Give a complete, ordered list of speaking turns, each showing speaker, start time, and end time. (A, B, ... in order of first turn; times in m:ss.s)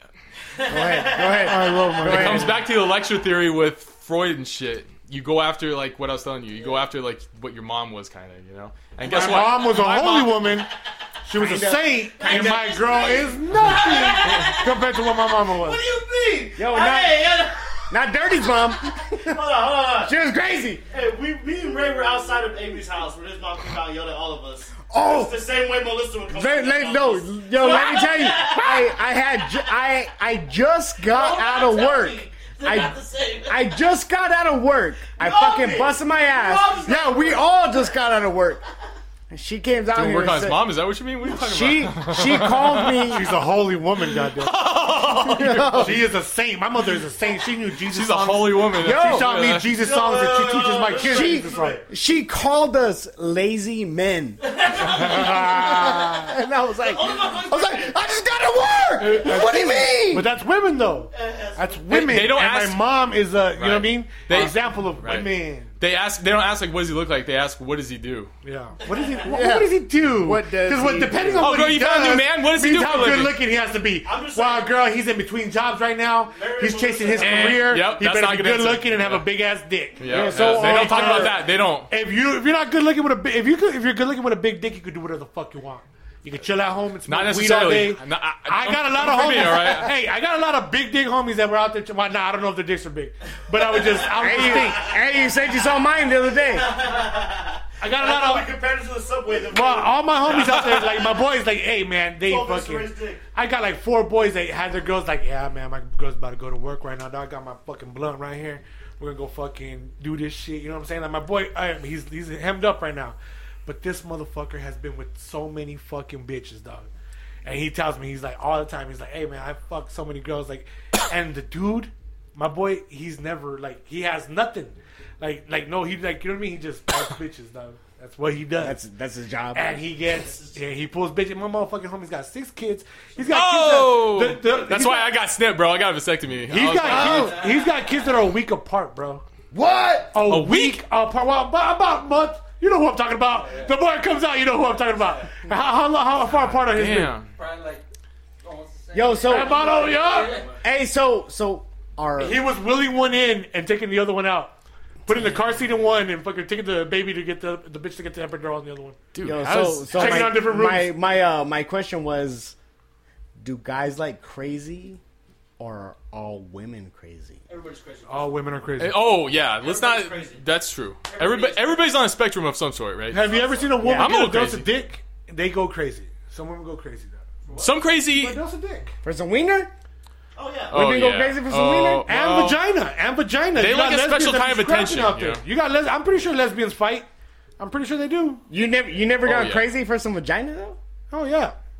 0:00.5-0:01.8 A
0:00.7-0:02.6 B
0:01.3-0:02.6 C
0:02.0-0:10.6 D
0:09.0-0:10.7 C
0:11.2-0:15.8 C
0:11.3-0:12.5 B
0:12.2-0:20.1 A
0:16.6-0:17.3 B
0:17.9-0:20.8 B
0:20.9-0:29.7 A
0:24.9-0:25.4 B
0:26.3-0:38.6 B
0:31.0-0:33.8 A
0:35.2-0:37.8 A
0:39.3-0:40.7 B
0:39.9-0:43.2 D
0:41.3-0:43.3 B
0:43.1-0:44.6 C
0:44.2-0:46.0 D
0:45.0-0:46.0 B
0:45.7-0:51.8 C
0:47.9-0:49.7 D
0:48.8-0:49.4 B
0:49.7-0:51.8 A
0:51.0-1:00.3 B
0:54.4-0:56.0 A
0:54.8-0:56.2 C
0:56.8-0:58.0 A
0:59.0-1:05.7 C
1:01.1-1:01.8 A
1:01.9-1:02.8 D
1:03.6-1:08.3 D
1:08.4-1:35.0 C
1:08.9-1:09.2 A
1:09.2-1:11.6 B
1:11.4-1:13.4 D
1:14.0-1:14.8 A
1:16.3-1:17.7 A
1:17.2-1:19.2 D
1:20.0-1:21.9 D
1:20.0-1:21.4 B
1:27.1-1:29.9 D
1:33.5-1:35.4 A
1:34.2-1:36.8 B
1:36.3-1:41.1 A
1:37.8-1:38.5 C
1:39.5-1:56.9 C
1:40.3-1:40.8 D
1:42.2-1:43.2 A
1:57.4-2:08.8 C
2:08.6-2:09.8 B
2:09.5-2:15.2 C
2:10.1-2:10.6 A
2:13.3-2:17.4 D
2:16.5-2:19.2 C
2:16.8-2:18.1 A
2:16.9-2:17.3 B
2:19.5-2:20.2 B
2:20.1-2:27.2 C
2:20.2-2:20.8 D
2:23.4-2:23.8 E
2:26.7-2:27.3 D
2:27.3-2:27.8 E
2:28.4-2:30.6 E
2:28.9-2:29.9 B
2:29.2-2:30.5 C
2:30.6-2:32.4 B
2:32.2-2:34.5 C
2:35.1-2:39.0 C
2:39.1-2:40.3 D
2:39.2-2:42.6 B
2:39.9-2:40.9 C
2:43.4-2:45.0 B
2:45.6-2:47.4 B
2:47.5-2:48.4 A
2:48.1-2:49.0 C
2:48.8-2:54.7 D
2:49.3-2:50.4 A
2:51.1-2:51.8 A
2:53.1-2:57.2 C
2:53.2-2:53.8 A
2:53.8-2:54.2 B
2:57.5-2:57.8 A
2:57.6-2:58.4 D
2:58.1-2:59.0 C
2:59.0-2:59.7 B
3:00.4-3:00.8 A
3:00.7-3:02.6 D
3:00.7-3:02.1 B
3:02.1-3:07.1 C
3:03.6-3:05.4 D
3:07.6-3:08.4 C
3:08.5-3:10.8 B
3:09.2-3:09.6 D
3:11.1-3:11.6 C